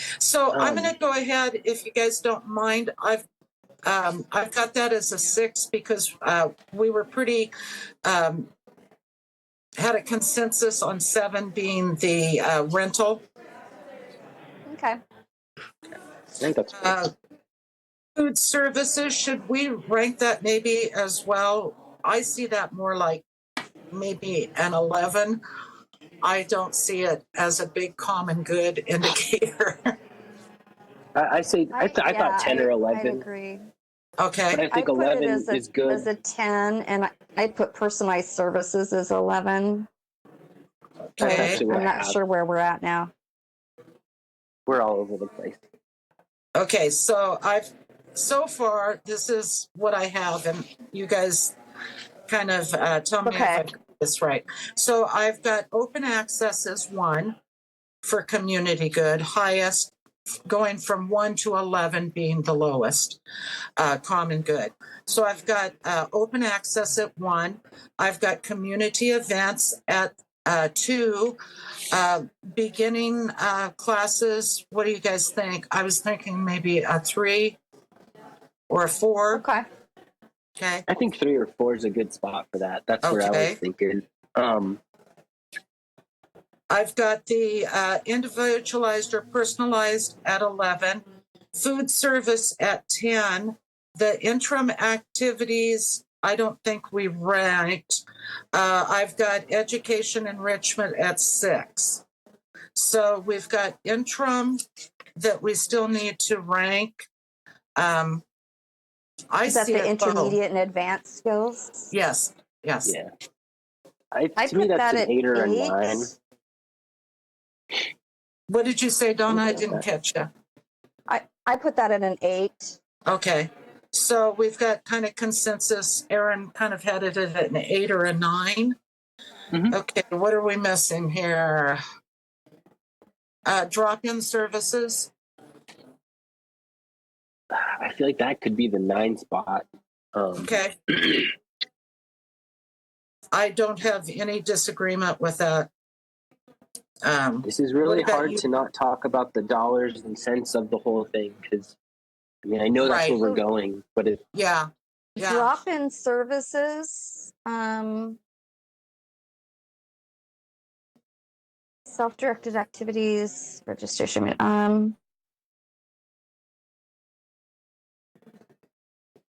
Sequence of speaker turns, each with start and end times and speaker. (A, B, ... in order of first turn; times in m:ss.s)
0:00.2-0:03.2 A
0:00.5-0:00.9 B
0:03.8-0:07.5 A
0:08.0-0:08.5 A
0:09.8-0:13.2 A
0:14.7-0:15.0 C
0:16.4-0:17.1 B
0:16.8-0:17.1 A
0:18.2-0:23.2 A
0:23.9-0:25.4 A
0:26.2-0:30.0 A
0:31.2-0:33.3 B
0:31.7-0:33.7 C
0:34.2-0:34.6 A
0:34.5-0:36.1 B
0:34.7-0:39.9 C
0:41.2-0:41.6 A
0:41.2-0:43.1 C
0:41.2-0:42.2 B
0:44.7-0:45.6 B
0:46.6-0:51.6 A
0:52.3-0:57.4 A
0:53.2-0:53.7 C
0:58.0-0:59.9 A
1:00.5-1:03.2 A
1:03.8-1:11.4 A
1:11.9-1:17.6 A
1:18.7-1:19.4 A
1:19.3-1:19.7 C
1:20.6-1:20.8 A
1:20.9-1:24.8 B
1:23.0-1:23.6 A
1:26.7-1:38.0 A
1:38.5-1:42.0 A
1:42.8-1:44.6 A
1:45.2-1:47.1 A
1:47.8-1:48.2 A
1:49.3-1:50.4 A
1:49.4-1:51.9 C
1:51.9-1:52.9 A
1:52.8-1:53.1 B
1:54.1-1:56.1 B
1:54.4-1:56.2 C
1:58.5-2:00.3 A
1:59.3-1:59.8 B
2:01.1-2:02.8 C
2:03.1-2:08.8 A
2:09.5-2:09.8 B
2:09.7-2:11.8 A
2:13.5-2:15.1 A
2:17.5-2:21.3 B
2:20.4-2:20.7 A
2:23.3-2:25.7 A
2:27.0-2:28.4 A
2:27.4-2:31.8 B
2:32.4-2:34.2 B
2:32.8-2:33.2 A
2:33.2-2:33.4 C
2:34.3-2:35.6 A
2:35.2-2:38.2 C
2:41.9-2:45.0 C